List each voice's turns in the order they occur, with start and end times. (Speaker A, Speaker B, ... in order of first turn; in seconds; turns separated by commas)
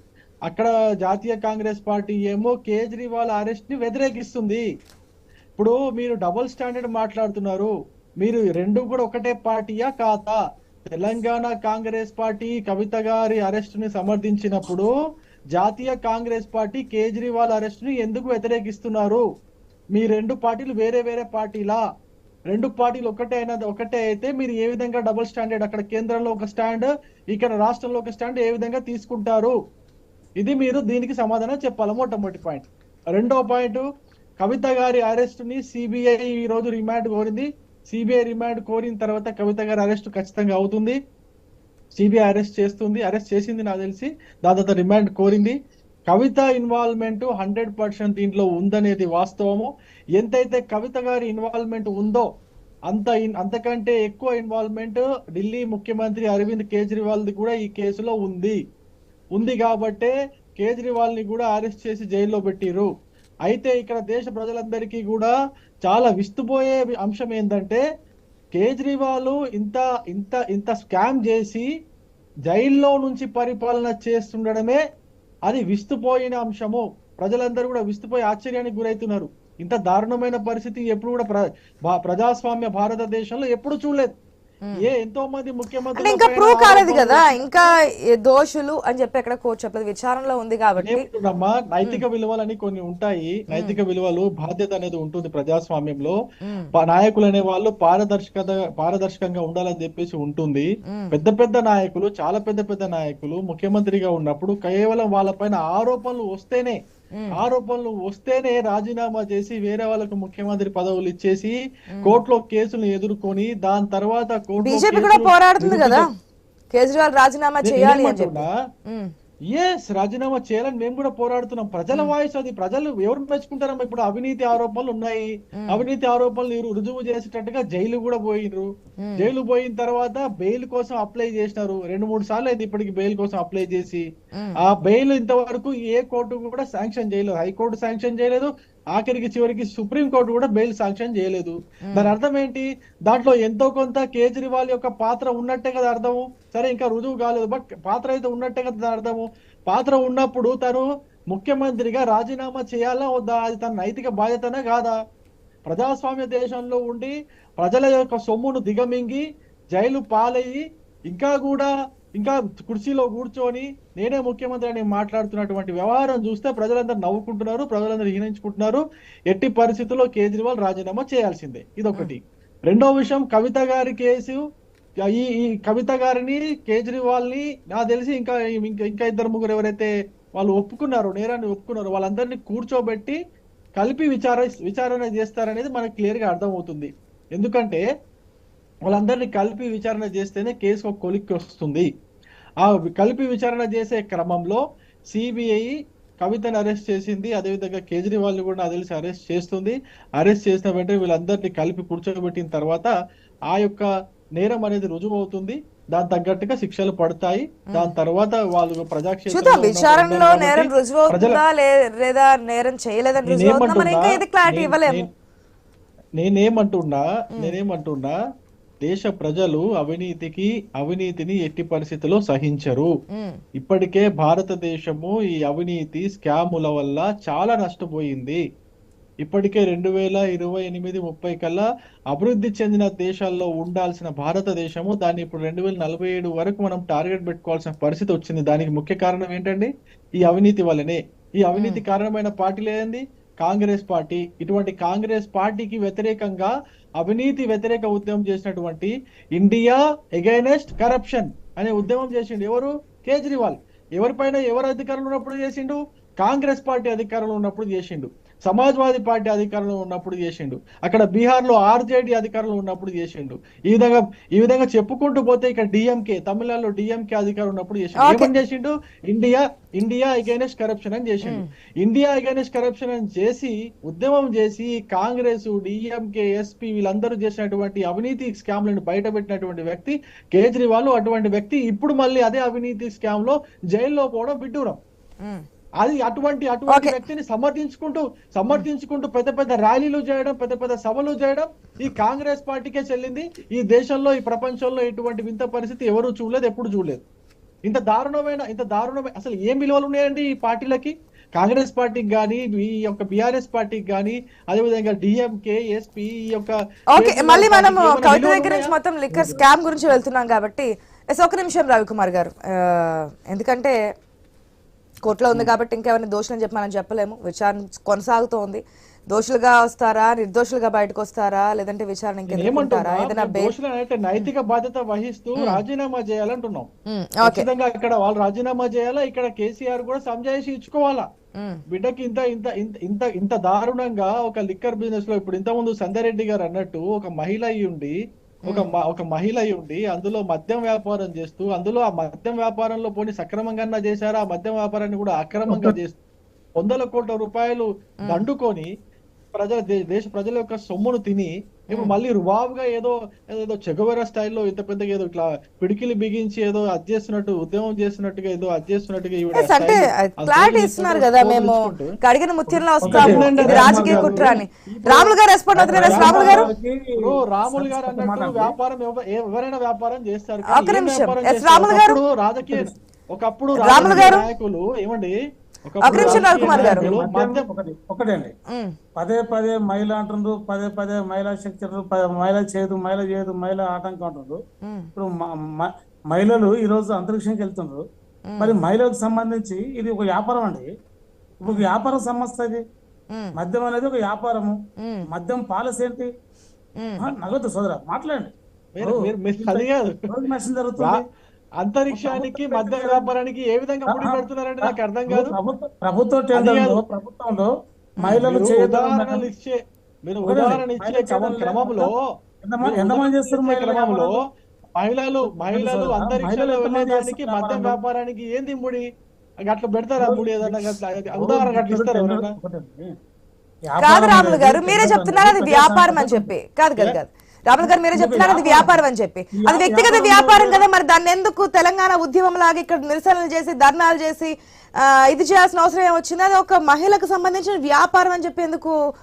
Speaker A: 0.5-4.6, Speaker A: 5.6-7.7, Speaker A: 8.2-10.4, Speaker A: 10.9-14.9, Speaker A: 15.6-19.2, Speaker A: 20.0-21.8, Speaker A: 22.5-29.5, Speaker A: 30.4-33.9, Speaker A: 34.4-41.0, Speaker A: 42.0-45.6, Speaker A: 46.1-52.3, Speaker A: 52.9-58.6, Speaker A: 59.4-62.9, Speaker A: 63.5-65.3, Speaker A: 65.9-67.8, Speaker A: 68.6-71.7, Speaker A: 72.5-74.8, Speaker A: 75.5-84.1, Speaker A: 84.8-87.7, Speaker B: 86.0-91.1, Speaker A: 90.8-96.2, Speaker B: 93.5-93.8, Speaker B: 96.4-96.7, Speaker A: 96.8-106.8, Speaker B: 100.9-101.1, Speaker A: 107.4-116.0, Speaker B: 114.6-116.1, Speaker B: 116.7-119.1, Speaker A: 117.6-118.5, Speaker A: 119.5-134.1, Speaker B: 129.0-129.3, Speaker A: 134.6-155.0, Speaker B: 141.9-142.1, Speaker A: 155.7-174.4, Speaker A: 175.1-183.2, Speaker A: 183.8-187.8, Speaker A: 188.9-191.9, Speaker A: 192.6-194.6, Speaker A: 195.1-195.7, Speaker A: 196.2-202.9, Speaker A: 203.5-203.9, Speaker A: 204.4-211.4, Speaker B: 209.3-215.1, Speaker A: 213.2-215.1, Speaker A: 216.2-218.2, Speaker A: 218.8-222.9, Speaker B: 223.1-223.4, Speaker A: 223.6-228.4, Speaker A: 229.2-239.7, Speaker A: 240.2-284.8, Speaker B: 241.6-241.8, Speaker B: 268.0-268.3, Speaker A: 285.8-297.0, Speaker A: 297.7-308.7, Speaker B: 306.9-313.8, Speaker C: 309.1-309.4, Speaker B: 315.1-323.5, Speaker A: 322.3-326.7, Speaker B: 326.9-327.5, Speaker A: 327.2-331.1, Speaker A: 331.7-337.9, Speaker A: 338.5-346.0, Speaker C: 345.5-345.8, Speaker A: 346.6-348.7, Speaker A: 349.4-361.9, Speaker B: 359.4-366.5, Speaker A: 362.5-365.1, Speaker C: 362.9-364.4, Speaker C: 365.6-366.8, Speaker A: 365.7-375.1, Speaker C: 367.5-368.5, Speaker B: 370.5-372.0, Speaker C: 372.5-372.7, Speaker B: 373.6-374.3, Speaker C: 373.8-374.2, Speaker A: 375.7-377.4, Speaker B: 375.8-376.9, Speaker C: 375.9-378.3, Speaker C: 379.0-384.4, Speaker C: 385.0-387.8, Speaker B: 388.3-388.6, Speaker C: 388.4-390.7, Speaker C: 391.4-392.6, Speaker C: 393.4-394.6, Speaker B: 394.8-395.1, Speaker C: 395.1-396.1, Speaker B: 396.8-397.1, Speaker C: 397.0-401.0, Speaker A: 398.8-400.0, Speaker A: 401.6-405.4, Speaker C: 401.9-403.1, Speaker C: 403.9-409.3, Speaker A: 406.4-406.8, Speaker A: 408.1-409.6, Speaker A: 410.1-412.0, Speaker C: 410.2-411.9, Speaker C: 412.4-414.2, Speaker A: 412.6-414.2, Speaker A: 414.8-418.9, Speaker C: 415.2-417.8, Speaker A: 419.5-422.3, Speaker C: 420.0-422.9, Speaker C: 423.7-427.0, Speaker B: 423.8-438.8, Speaker C: 427.6-428.8, Speaker C: 429.4-430.6